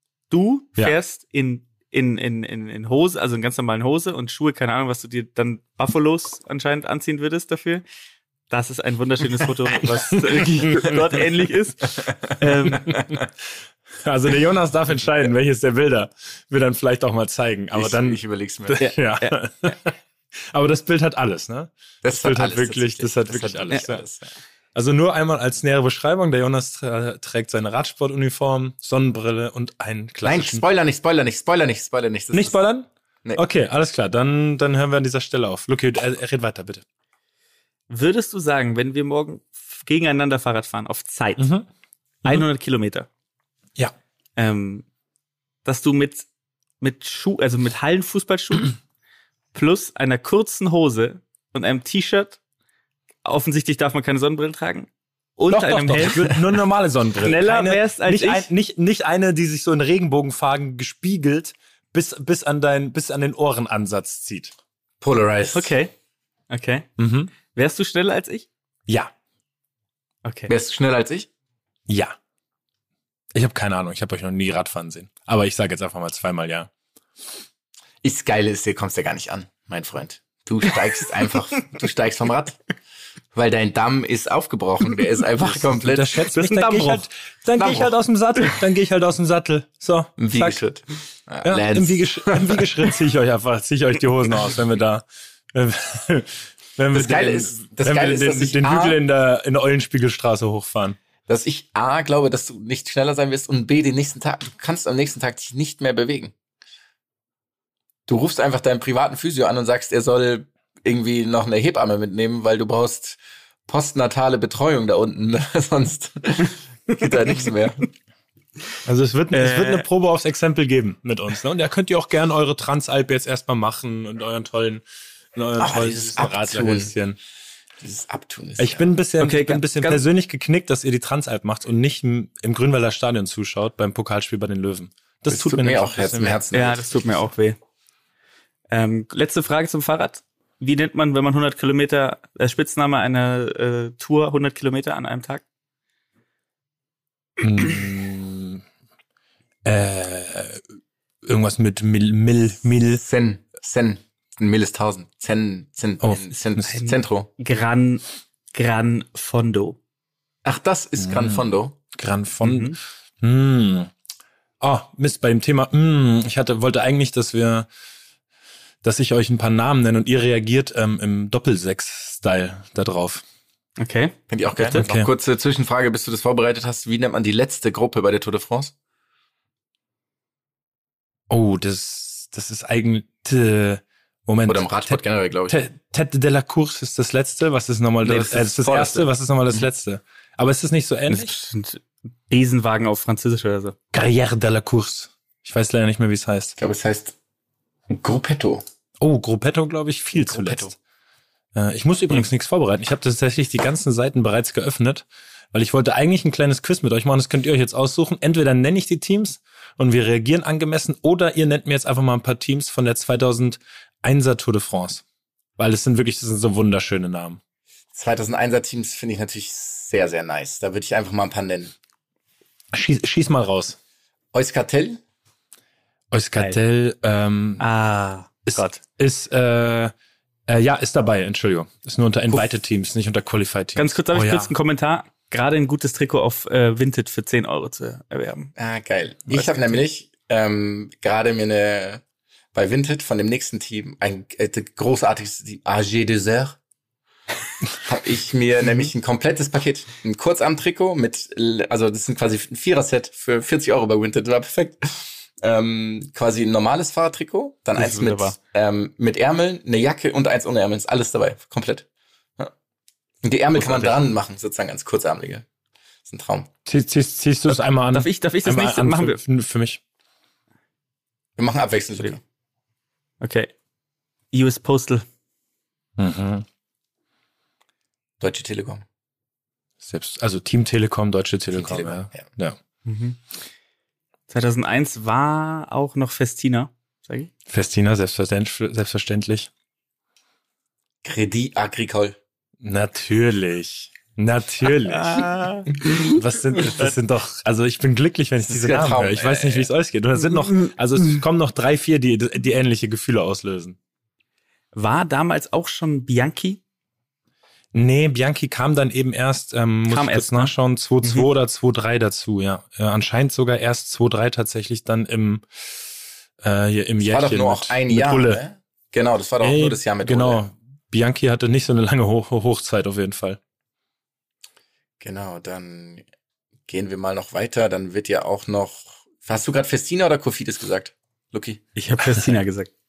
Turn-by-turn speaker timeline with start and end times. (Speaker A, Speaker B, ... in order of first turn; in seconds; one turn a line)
Speaker A: 0.3-7.8
Speaker A: 8.5-13.0
Speaker B: 10.4-11.0
Speaker B: 14.0-19.9
Speaker C: 17.7-18.9
Speaker A: 18.8-19.3
Speaker B: 20.5-24.0
Speaker C: 22.0-24.3
Speaker B: 24.8-30.6
Speaker C: 30.2-32.6
Speaker B: 32.3-36.8
Speaker A: 37.9-41.5
Speaker B: 41.4-41.7
Speaker A: 42.2-43.1
Speaker A: 44.4-44.9
Speaker A: 45.6-46.3
Speaker A: 46.8-48.8
Speaker A: 49.5-52.4
Speaker A: 53.2-56.3
Speaker B: 55.5-64.5
Speaker A: 57.2-58.5
Speaker C: 65.0-65.7
Speaker A: 65.5-65.9
Speaker A: 66.5-66.9
Speaker B: 67.0-67.3
Speaker A: 67.5-68.5
Speaker A: 70.2-70.5
Speaker C: 70.5-71.3
Speaker B: 71.9-72.2
Speaker B: 73.3-76.7
Speaker C: 78.0-82.6
Speaker C: 83.3-86.3
Speaker B: 85.4-90.6
Speaker A: 86.3-87.0
Speaker C: 87.6-87.9
Speaker C: 90.2-92.9
Speaker B: 91.4-101.0
Speaker C: 96.9-99.0
Speaker C: 101.3-106.3
Speaker C: 108.1-117.9
Speaker B: 118.8-124.8
Speaker A: 119.3-119.8
Speaker B: 125.3-127.2
Speaker C: 125.6-126.9
Speaker C: 127.8-128.9
Speaker B: 128.6-136.4
Speaker A: 129.2-130.0
Speaker C: 135.3-136.9
Speaker A: 136.5-137.6
Speaker A: 138.7-145.4
Speaker B: 147.4-148.6
Speaker B: 149.7-150.6
Speaker B: 151.2-153.0
Speaker C: 152.9-157.3
Speaker B: 156.0-156.8
Speaker A: 156.7-159.8
Speaker C: 160.4-161.8
Speaker B: 161.0-163.9
Speaker A: 162.4-162.8
Speaker B: 164.6-167.7
Speaker B: 168.8-173.2
Speaker A: 173.8-174.8
Speaker C: 174.3-178.7
Speaker B: 174.7-175.1
Speaker B: 181.3-191.3
Speaker C: 184.5-185.6
Speaker C: 188.0-189.1
Speaker A: 191.1-193.8
Speaker B: 193.9-196.6
Speaker C: 196.6-197.2
Speaker C: 197.9-198.6
Speaker B: 199.0-200.8
Speaker C: 200.2-200.7
Speaker B: 201.6-215.0
Speaker B: 215.6-217.4
Speaker C: 217.9-221.7
Speaker B: 222.7-223.8
Speaker C: 224.3-225.0
Speaker B: 226.1-227.7
Speaker A: 227.6-228.8
Speaker B: 228.5-229.9
Speaker B: 230.5-234.5
Speaker A: 233.8-238.5
Speaker C: 238.6-242.0
Speaker A: 239.3-239.8
Speaker C: 242.5-246.6
Speaker C: 247.8-261.9
Speaker A: 257.8-258.4
Speaker C: 263.2-265.4
Speaker A: 263.6-264.0
Speaker C: 266.1-266.5
Speaker B: 266.7-269.8
Speaker A: 267.5-269.2
Speaker C: 271.4-272.2
Speaker A: 273.2-273.5
Speaker A: 274.3-275.1
Speaker B: 276.0-276.5
Speaker C: 278.2-278.8
Speaker B: 279.8-282.6
Speaker C: 281.5-282.3
Speaker A: 282.9-283.2
Speaker A: 284.3-287.3
Speaker B: 287.5-289.5
Speaker C: 291.0-292.2
Speaker B: 292.6-295.3
Speaker A: 294.9-295.7
Speaker B: 296.0-303.8
Speaker C: 298.5-299.7
Speaker A: 304.7-306.6
Speaker B: 307.7-315.5
Speaker A: 309.9-311.3
Speaker B: 316.4-318.4
Speaker C: 317.0-320.4
Speaker B: 319.4-323.4
Speaker C: 325.0-326.1
Speaker C: 326.7-331.6
Speaker A: 331.8-332.7